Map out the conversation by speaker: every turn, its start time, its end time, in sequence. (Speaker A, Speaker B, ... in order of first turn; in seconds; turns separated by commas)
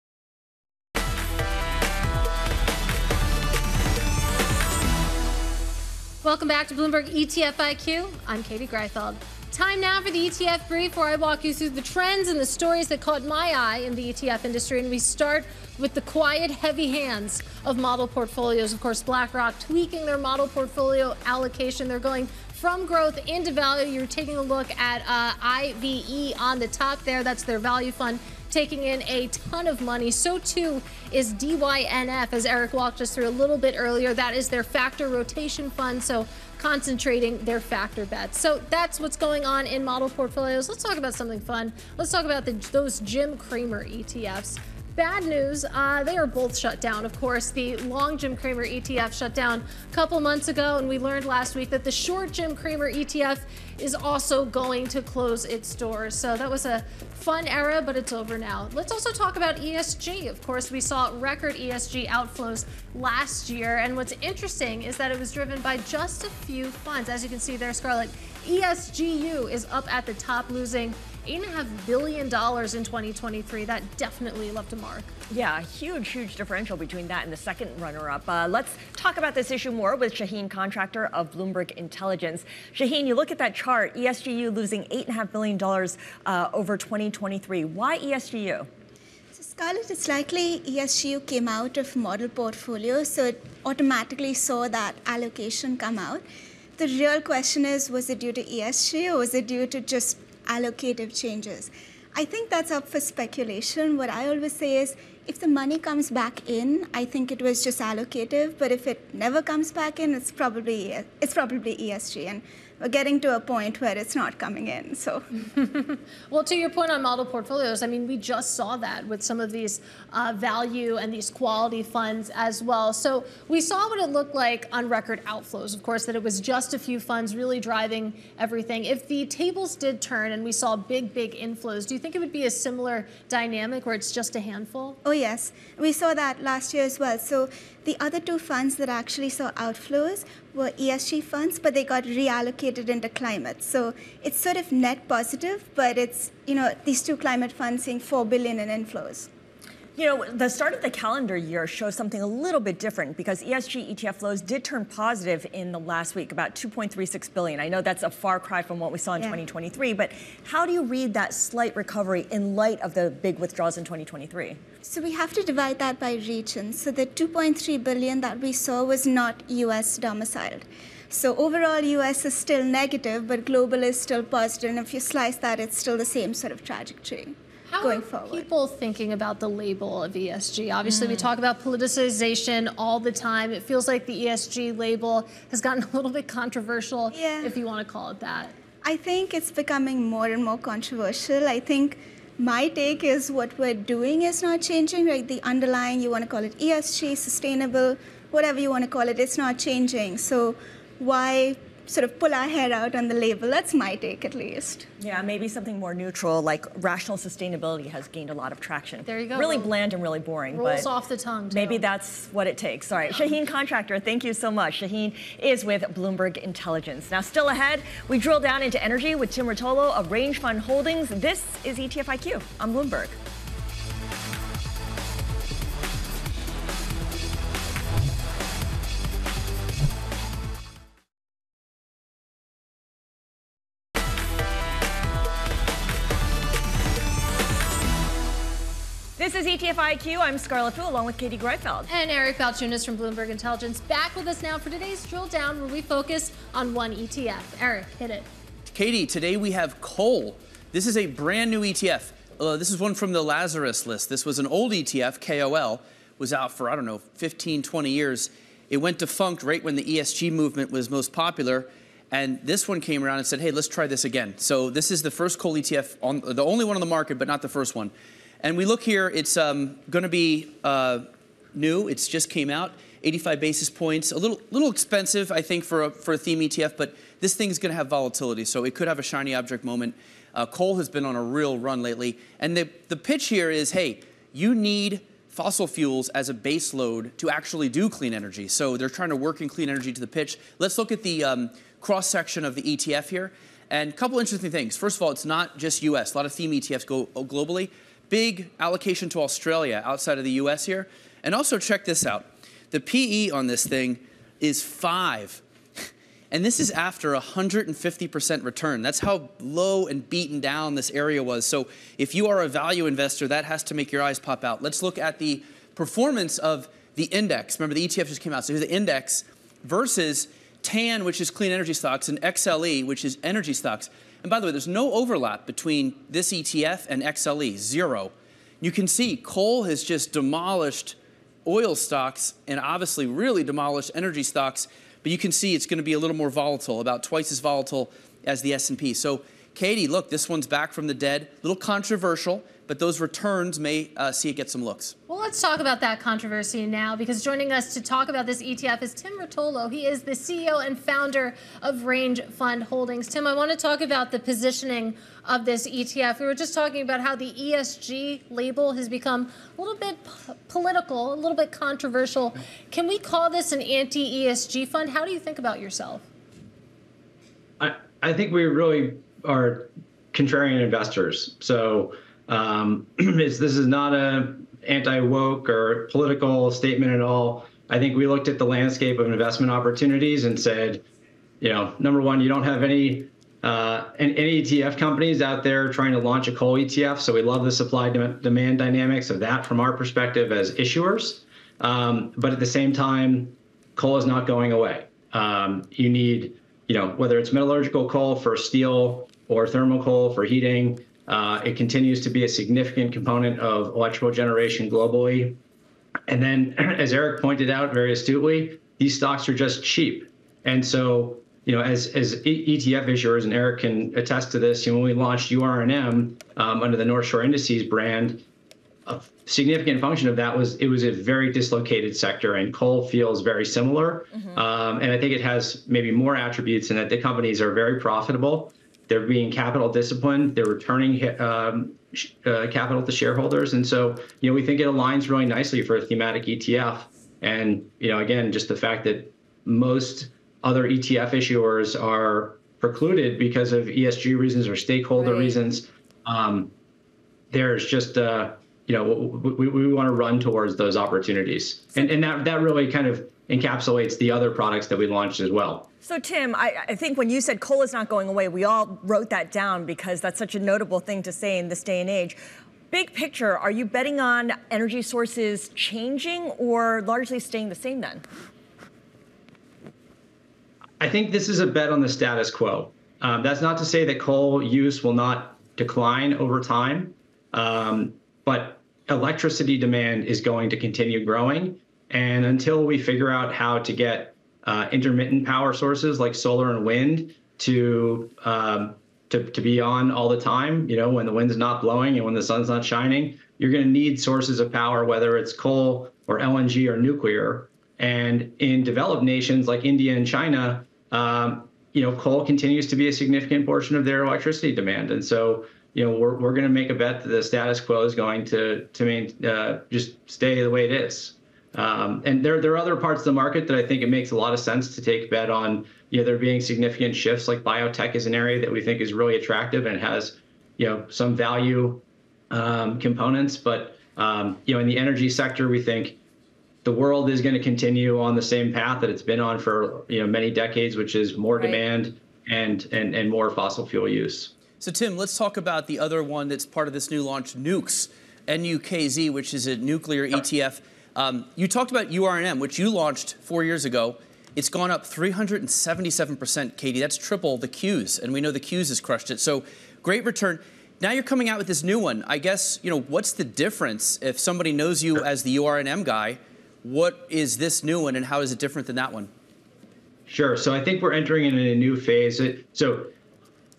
Speaker A: 6.2-75.1, Speaker B: 75.3-88.7, Speaker C: 89.3-96.2, Speaker C: 96.8-115.3, Speaker A: 115.5-135.0, Speaker C: 135.1-149.3, Speaker B: 150.0-164.6, Speaker C: 164.8-178.4, Speaker A: 177.7-188.5, Speaker C: 187.1-187.5, Speaker C: 188.8-204.9, Speaker B: 205.0-210.9, Speaker A: 209.1-209.7, Speaker A: 210.5-211.8, Speaker B: 211.5-223.2, Speaker B: 239.2-241.9, Speaker A: 241.9-248.3, Speaker D: 248.7-305.4, Speaker D: 306.3-345.0, Speaker A: 345.1-366.1, Speaker E: 367.6-380.8, Speaker E: 381.4-405.4, Speaker E: 406.1-418.2, Speaker E: 418.9-446.5, Speaker E: 447.3-455.7, Speaker B: 455.8-462.2, Speaker B: 462.7-468.0, Speaker E: 470.8-526.0, Speaker E: 526.6-534.3, Speaker D: 534.6-559.1, Speaker E: 560.1-562.9